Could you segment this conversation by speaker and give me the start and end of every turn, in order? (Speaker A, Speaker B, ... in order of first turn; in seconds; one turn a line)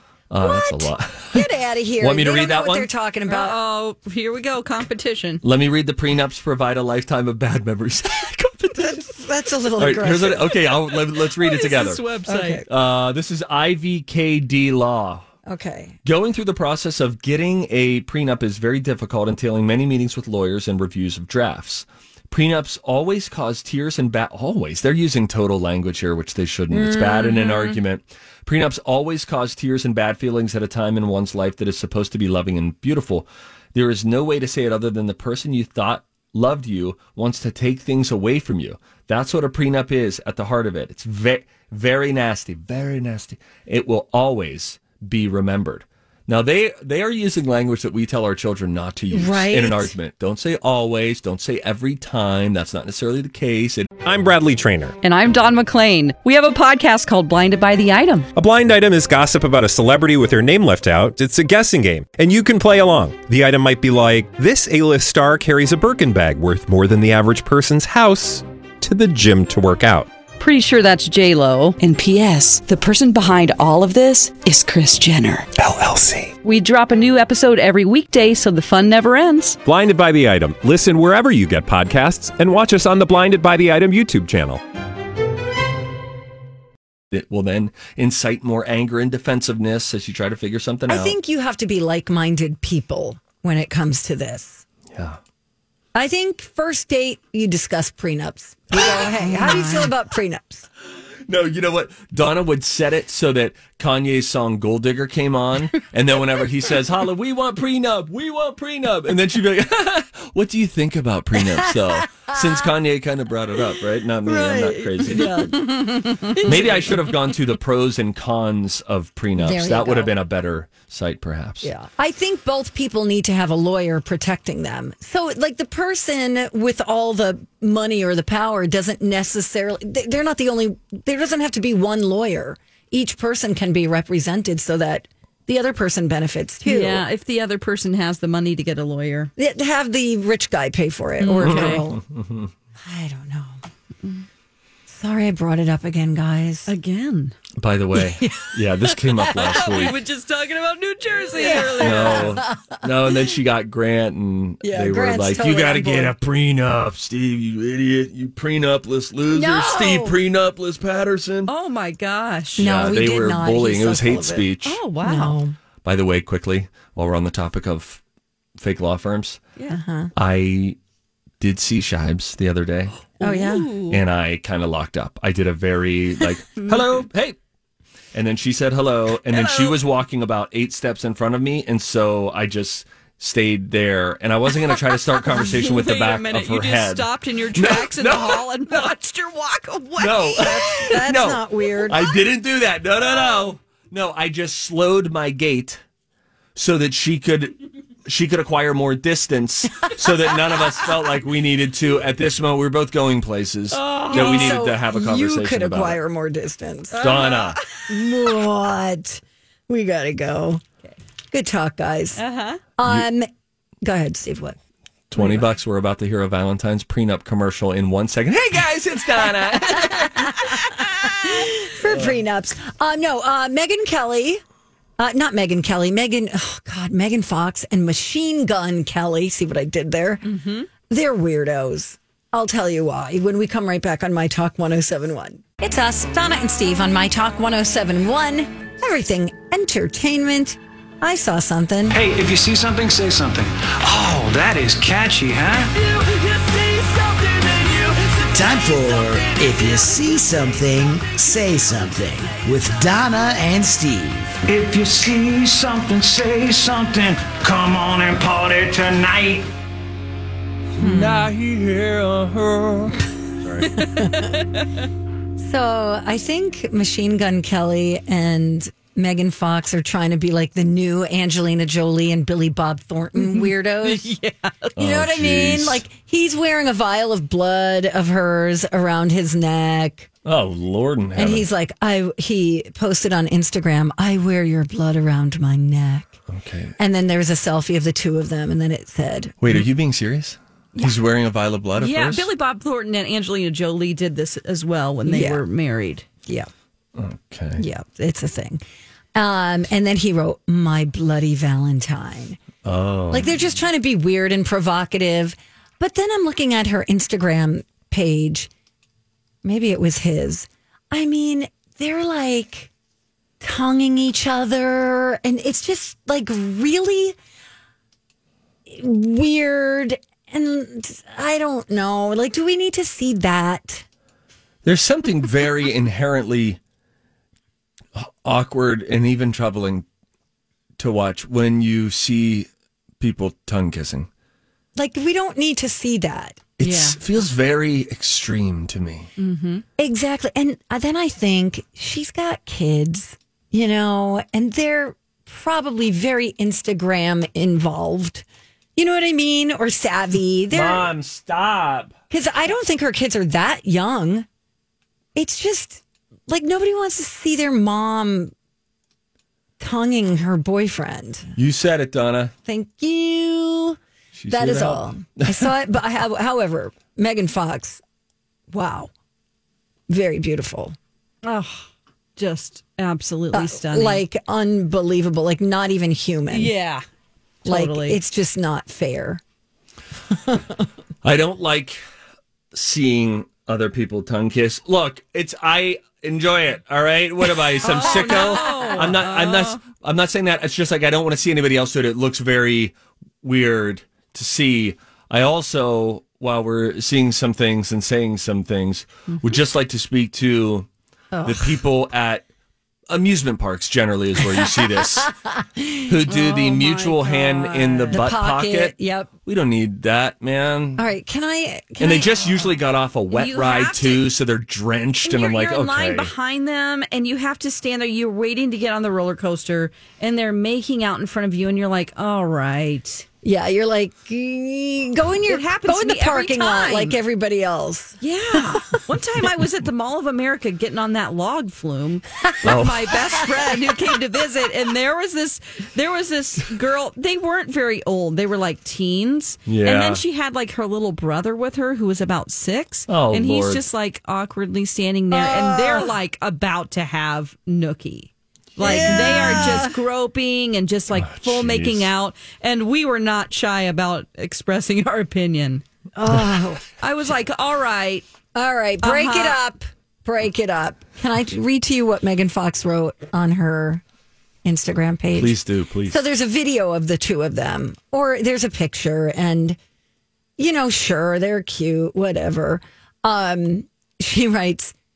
Speaker A: 0.3-1.5
Speaker B: 0.4-3.6
Speaker A: 2.0-2.9
Speaker C: 3.3-5.4
Speaker A: 5.4-9.1
Speaker B: 8.8-10.7
Speaker A: 9.8-12.0
Speaker C: 11.4-12.6
Speaker B: 12.3-12.7
Speaker A: 12.7-15.3
Speaker B: 15.5-16.0
Speaker A: 16.1-54.0
Speaker B: 26.7-27.7
Speaker B: 49.1-49.9
Speaker D: 54.0-55.0
Speaker C: 55.0-58.3
Speaker D: 58.4-70.1
Speaker C: 70.4-75.5
Speaker D: 75.7-76.3
Speaker C: 76.4-79.6
Speaker D: 79.6-84.6
Speaker A: 87.1-91.2
Speaker B: 90.9-94.6
Speaker A: 94.9-95.2
Speaker B: 95.9-100.7
Speaker A: 98.8-99.1
Speaker C: 98.8-99.9
Speaker A: 101.3-115.5
Speaker B: 111.6-112.4
Speaker B: 114.2-117.1
Speaker C: 115.7-116.4
Speaker A: 116.4-121.7
Speaker B: 119.4-120.1
Speaker B: 121.6-137.1
Speaker C: 136.6-139.3
Speaker B: 139.4-142.0
Speaker C: 141.2-141.9
Speaker A: 141.4-142.5
Speaker B: 142.8-143.6
Speaker B: 144.9-146.7
Speaker C: 146.7-147.4
Speaker A: 147.6-150.0
Speaker B: 147.9-148.7
Speaker B: 149.4-149.9
Speaker C: 149.4-152.4
Speaker B: 151.3-153.1
Speaker A: 151.6-161.5
Speaker B: 154.6-156.2
Speaker B: 159.3-160.2
Speaker C: 161.5-162.7
Speaker B: 162.6-164.5
Speaker A: 162.6-164.8
Speaker C: 164.7-165.4
Speaker B: 165.0-165.6
Speaker A: 165.8-168.0
Speaker A: 168.6-169.4
Speaker B: 169.7-170.1
Speaker A: 170.2-170.8
Speaker A: 171.4-173.0
Speaker C: 173.2-174.0
Speaker B: 173.2-173.7
Speaker A: 173.9-177.4
Speaker A: 178.1-188.9
Speaker C: 179.3-179.8
Speaker C: 185.3-191.0
Speaker A: 190.0-195.8
Speaker B: 190.4-192.2
Speaker A: 196.6-206.0
Speaker C: 203.7-204.6
Speaker B: 204.1-207.3
Speaker C: 206.9-207.9
Speaker A: 207.0-207.6
Speaker B: 207.9-210.6
Speaker B: 211.3-212.2
Speaker C: 212.2-212.6
Speaker B: 212.8-213.3
Speaker B: 213.8-214.6
Speaker A: 215.1-220.8
Speaker B: 215.2-215.5
Speaker B: 219.7-224.4
Speaker A: 221.9-222.1
Speaker B: 225.0-230.3
Speaker C: 230.2-230.7
Speaker B: 230.8-242.0
Speaker E: 241.9-245.7
Speaker C: 245.8-248.2
Speaker F: 248.3-254.4
Speaker E: 254.5-259.5
Speaker A: 260.8-263.8
Speaker B: 260.8-261.3
Speaker B: 263.8-264.3
Speaker C: 264.0-264.6
Speaker B: 265.4-274.1
Speaker C: 273.2-274.7
Speaker B: 274.8-280.1
Speaker A: 274.8-275.9
Speaker A: 280.2-281.5
Speaker B: 281.2-286.2
Speaker A: 286.3-286.8
Speaker B: 286.8-289.6
Speaker A: 289.4-292.3
Speaker C: 291.8-296.1
Speaker B: 295.1-295.4
Speaker A: 297.0-297.6
Speaker B: 297.6-298.6
Speaker B: 299.1-302.4
Speaker A: 302.6-303.3
Speaker B: 303.1-308.5
Speaker B: 309.4-312.7
Speaker B: 313.4-317.2
Speaker B: 318.7-323.9
Speaker A: 324.6-326.6
Speaker A: 328.0-329.9
Speaker A: 330.8-332.5
Speaker A: 333.0-334.1
Speaker B: 334.8-336.5
Speaker A: 336.6-339.1
Speaker C: 336.6-337.0
Speaker C: 339.2-339.6
Speaker B: 339.8-348.2
Speaker B: 348.8-350.9
Speaker A: 350.5-351.9
Speaker B: 352.1-354.3
Speaker B: 355.1-358.3
Speaker B: 359.6-361.3
Speaker A: 361.4-362.3
Speaker B: 362.5-363.8
Speaker A: 364.1-365.5
Speaker B: 364.3-367.8
Speaker B: 368.5-368.9
Speaker B: 369.9-370.8
Speaker C: 371.2-374.0
Speaker B: 373.3-376.5
Speaker C: 376.3-376.8
Speaker C: 377.4-378.0
Speaker B: 377.5-379.2
Speaker B: 380.1-380.6
Speaker A: 381.0-381.8
Speaker A: 382.5-400.7
Speaker C: 387.6-389.6
Speaker B: 387.7-388.9
Speaker B: 401.1-401.6
Speaker A: 401.2-402.2
Speaker A: 402.9-405.1
Speaker B: 404.4-406.1
Speaker A: 405.9-408.8
Speaker C: 406.1-408.1
Speaker B: 407.9-409.1
Speaker A: 409.3-410.9
Speaker B: 410.8-412.6
Speaker A: 411.8-416.1
Speaker C: 413.1-414.1
Speaker C: 415.0-423.1
Speaker B: 423.2-428.8
Speaker C: 425.3-427.0
Speaker C: 428.0-455.6
Speaker A: 432.4-433.0
Speaker A: 439.5-440.0
Speaker A: 442.9-443.6
Speaker B: 445.1-445.9
Speaker B: 448.6-449.8
Speaker A: 448.7-449.6
Speaker A: 450.9-451.9
Speaker B: 455.9-456.6
Speaker C: 456.8-458.1
Speaker B: 458.4-463.8
Speaker C: 458.8-459.4
Speaker B: 464.4-469.6
Speaker A: 465.1-466.0
Speaker B: 470.4-474.8